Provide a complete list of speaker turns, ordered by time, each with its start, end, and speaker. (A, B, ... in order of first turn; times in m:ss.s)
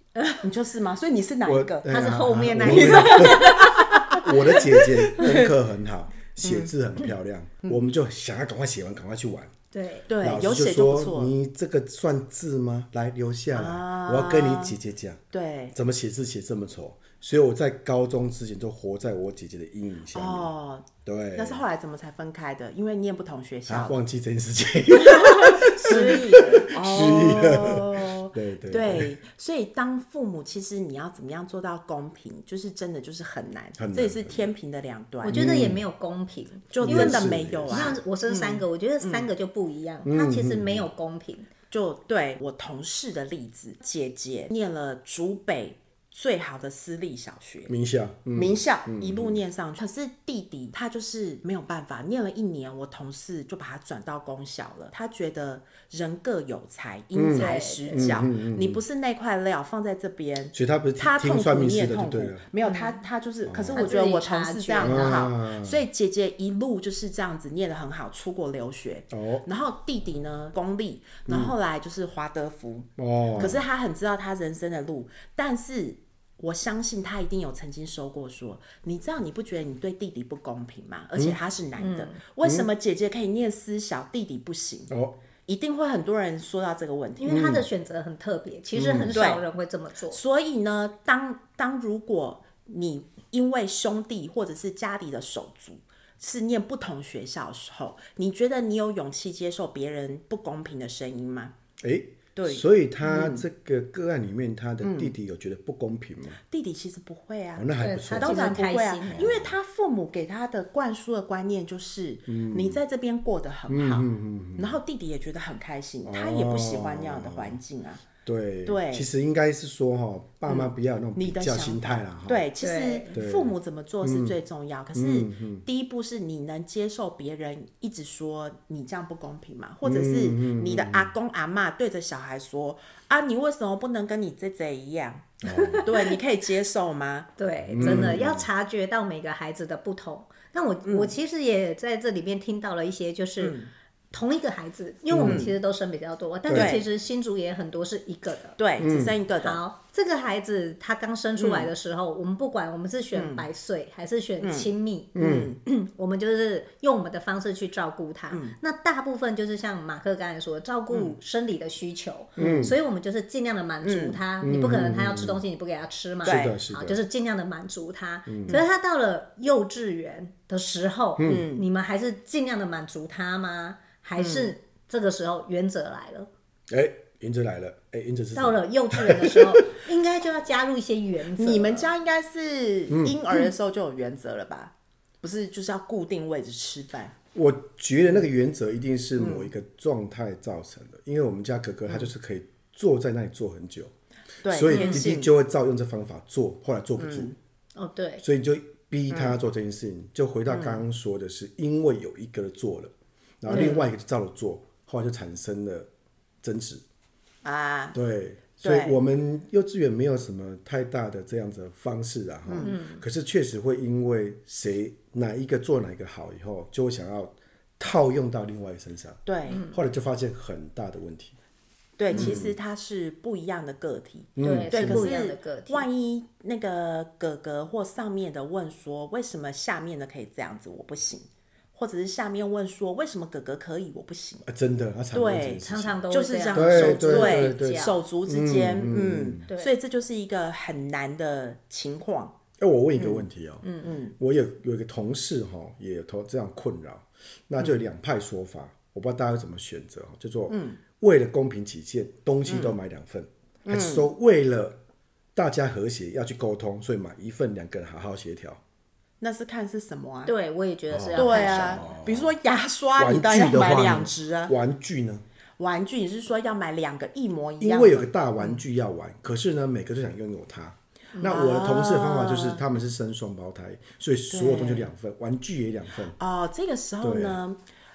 0:00.4-0:01.9 A
0:01.4-0:09.5 B
0:01.9-0:04.1 C
0:02.6-0:05.5 A
0:06.4-0:06.7 A
0:09.7-0:10.1 C
0:10.1-0:11.3 A
0:10.2-0:15.2 B
0:13.5-0:14.8 A
0:15.3-0:15.7 A
0:15.7-0:20.5 B
0:20.1-0:24.0 A
0:21.0-0:21.6 B
0:23.7-0:29.1 B
0:25.1-0:26.7 C
0:25.8-0:35.5 A
0:33.8-0:34.5 B
0:35.2-0:41.5 C
0:35.3-0:35.8 B
0:36.7-0:39.3 A
0:36.8-0:38.0 B
0:40.0-0:40.9 B
0:41.7-0:47.7 A
0:47.7-0:49.4 B
0:48.3-1:24.9 A
0:57.1-0:58.8 B
0:57.3-0:58.1 C
1:00.5-1:02.4 B
1:02.6-1:03.0 C
1:03.4-1:03.9 B
1:03.7-1:05.3 C
1:04.8-1:05.8 B
1:09.1-1:09.4 B
1:11.3-1:11.5 B
1:13.0-1:13.6 B
1:21.8-1:22.2 C
1:22.4-1:22.7 B
1:24.9-1:25.2 B
1:25.4-1:27.4 A
1:27.2-1:30.2 C
1:27.2-1:27.6 B
1:28.8-1:29.2 B
1:29.1-1:29.4 A
1:30.1-1:41.5 A
1:41.8-1:46.4 B
1:42.3-1:43.4 A
1:44.8-1:45.1 A
1:46.5-1:58.0 A
1:47.6-1:48.5 B
1:47.8-1:49.3 C
1:49.1-1:49.6 B
1:52.3-1:52.8 B
1:53.7-1:54.8 B
1:56.0-1:57.6 B
1:58.2-2:02.4 B
1:58.6-1:59.1 A
2:00.4-2:18.2 A
2:02.6-2:03.1 C
2:03.1-2:04.4 B
2:04.9-2:05.6 B
2:09.8-2:11.1 B
2:15.4-2:15.9 B
2:15.4-2:16.2 C
2:17.4-2:23.5 C
2:17.7-2:18.5 B
2:20.8-2:21.1 A
2:23.4-2:23.7 A
2:24.1-2:28.6 C
2:25.1-2:25.4 B
2:25.2-2:25.5 A
2:26.5-2:26.8 B
2:26.5-2:26.8 A
2:28.6-2:29.6 A
2:28.8-2:29.2 B
2:29.4-2:56.3 C
2:31.4-2:31.7 A
2:33.1-2:33.5 A
2:34.4-2:35.6 A
2:35.1-2:35.5 B
2:38.3-2:38.6 A
2:42.4-2:42.7 B
2:42.4-2:42.7 A
2:43.8-2:44.2 A
2:44.4-2:45.4 B
2:46.2-2:46.6 A
2:46.2-2:47.0 B
2:48.3-2:48.6 B
2:51.2-2:51.5 B
2:51.2-2:51.6 A
2:54.2-2:54.5 A
2:56.7-2:59.7 B
2:58.3-3:01.9 C
3:01.3-3:07.1 A
3:02.9-3:03.2 B
3:07.3-3:13.9 B
3:09.2-3:09.5 A
3:14.4-3:15.3 A
3:14.4-3:17.3 B
3:14.7-3:15.0 C
3:17.0-3:17.3 A
3:17.8-3:18.2 C
3:18.2-3:25.9 B
3:19.1-3:19.4 A
3:20.5-3:20.8 A
3:23.5-3:23.9 A
3:23.5-3:23.8 C
3:26.4-3:26.8 B
3:27.4-3:28.0 A
3:27.9-3:41.4 B
3:28.6-3:29.0 A
3:32.5-3:32.7 A
3:32.6-3:33.0 C
3:39.2-3:39.6 A
3:39.5-3:39.8 C
3:42.0-3:54.5 A
3:42.1-3:42.6 B
3:44.4-3:45.1 B
3:44.4-3:45.8 C
3:54.4-3:56.0 B
3:55.1-4:02.3 A
3:55.6-3:58.0 C
3:56.5-3:59.4 B
4:02.6-4:14.8 B
4:03.0-4:03.2 A
4:03.6-4:03.9 C
4:03.8-4:04.1 A
4:10.5-4:10.8 A
4:12.4-4:12.8 A
4:13.6-4:14.1 A
4:15.3-4:18.6 B
4:19.2-4:20.3 A
4:20.2-4:21.9 C
4:20.9-4:22.3 B
4:21.1-4:24.5 A
4:23.0-4:25.2 B
4:25.6-4:28.6 A
4:27.6-4:36.2 B
4:31.2-4:32.6 A
4:34.3-4:34.9 A
4:36.2-4:37.6 A
4:37.0-4:37.4 B